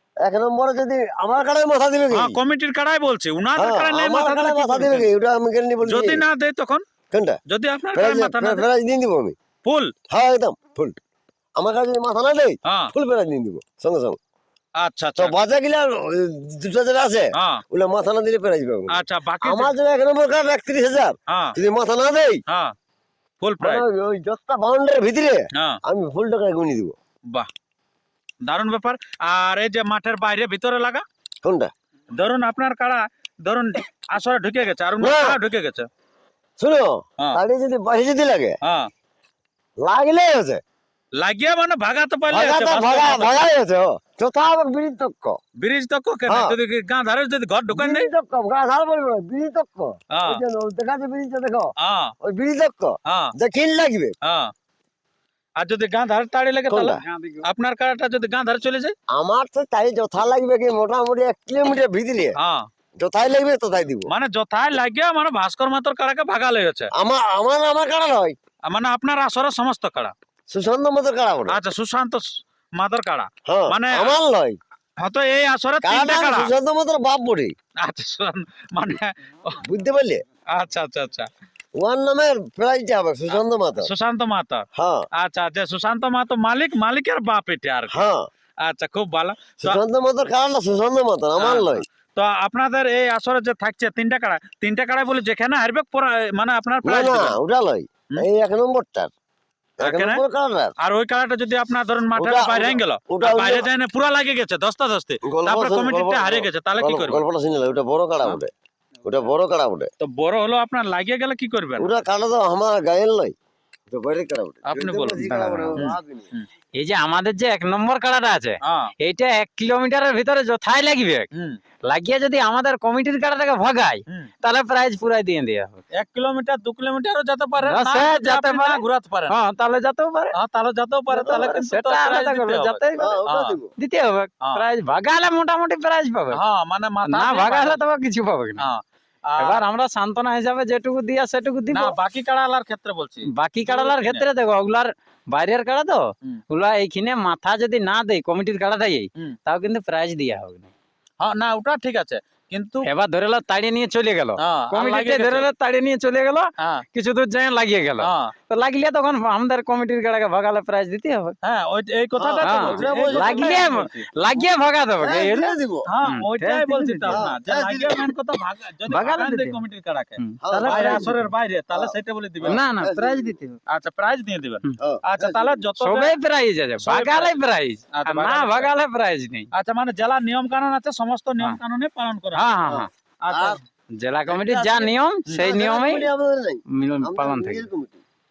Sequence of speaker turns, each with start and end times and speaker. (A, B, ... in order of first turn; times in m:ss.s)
0:00.2-0:02.4 A
0:02.1-0:05.1 B
0:03.6-0:06.3 A
0:05.8-0:06.8 B
0:07.1-0:07.4 A
0:07.5-0:08.7 B
0:07.9-0:09.4 A
0:09.6-0:09.9 B
0:10.1-0:11.0 A
0:11.6-0:14.2 A
0:12.7-0:12.9 B
0:14.8-0:15.4 B
0:15.2-0:22.4 A
0:17.4-0:17.6 B
0:18.9-0:19.7 B
0:21.3-0:21.6 B
0:22.5-0:22.7 B
0:23.4-0:23.8 B
0:23.6-0:27.0 A
0:28.4-0:31.0 B
0:31.4-0:31.7 A
0:32.2-0:35.9 B
0:35.0-0:35.4 A
0:36.6-0:38.6 A
0:39.8-0:40.6 A
0:41.2-0:43.4 B
0:42.3-0:45.4 A
0:45.6-0:48.1 B
0:46.3-0:46.6 A
0:47.7-0:54.1 A
0:50.1-0:50.4 B
0:51.8-0:52.1 B
0:53.1-0:53.3 B
0:54.2-0:54.5 B
0:55.6-0:58.9 B
0:56.7-0:57.0 A
0:59.1-1:02.4 A
1:02.4-1:02.7 B
1:03.0-1:04.1 A
1:04.1-1:06.9 B
1:06.9-1:08.4 A
1:08.7-1:10.1 B
1:10.5-1:11.6 A
1:11.5-1:14.2 B
1:13.5-1:14.6 A
1:15.0-1:16.5 B
1:15.8-1:17.5 A
1:17.8-1:19.6 B
1:19.6-1:20.2 A
1:20.5-1:21.3 B
1:21.8-1:23.9 A
1:23.3-1:24.6 B
1:24.8-1:25.1 A
1:25.2-1:27.9 B
1:27.9-1:28.2 A
1:28.6-1:29.8 B
1:29.6-1:31.8 A
1:31.4-1:37.4 B
1:36.8-1:39.1 A
1:39.8-1:40.7 A
1:39.8-1:40.2 B
1:40.8-1:47.2 B
1:42.2-1:43.7 A
1:45.2-1:48.5 A
1:49.0-1:49.9 A
1:50.0-1:51.9 B
1:51.8-1:53.3 A
1:53.9-1:56.3 A
1:54.7-1:56.5 B
1:55.2-1:55.8 C
1:56.8-2:01.3 C
2:01.9-2:05.8 C
2:06.0-2:09.4 B
2:07.6-2:10.4 C
2:10.4-2:13.6 B
2:11.1-2:11.6 A
2:11.2-2:13.2 C
2:13.0-2:13.7 A
2:13.8-2:16.4 C
2:16.3-2:17.8 B
2:17.1-2:18.7 C
2:18.6-2:19.6 B
2:19.4-2:22.0 C
2:21.7-2:24.2 B
2:23.3-2:30.7 C
2:31.2-2:32.8 B
2:32.9-2:41.4 C
2:34.4-2:35.5 B
2:38.0-2:38.3 B
2:41.4-2:44.1 B
2:42.2-2:43.6 A
2:42.4-2:47.2 C
2:45.0-2:45.9 A
2:45.9-2:52.6 B
2:47.1-2:48.1 A
2:48.9-2:49.6 C
2:50.2-2:51.3 C
2:50.4-2:51.2 A
2:51.7-2:53.4 A
2:52.5-2:53.6 C
2:53.7-2:56.2 B
2:54.8-2:55.6 A
2:55.8-2:59.5 C
2:56.8-2:57.3 B
2:58.0-2:58.7 B
2:59.5-3:02.5 B
3:02.4-3:02.9 C
3:02.7-3:03.6 A
3:03.2-3:03.6 B
3:04.0-3:06.1 C
3:04.3-3:05.5 B
3:05.3-3:08.0 A
3:06.8-3:07.7 C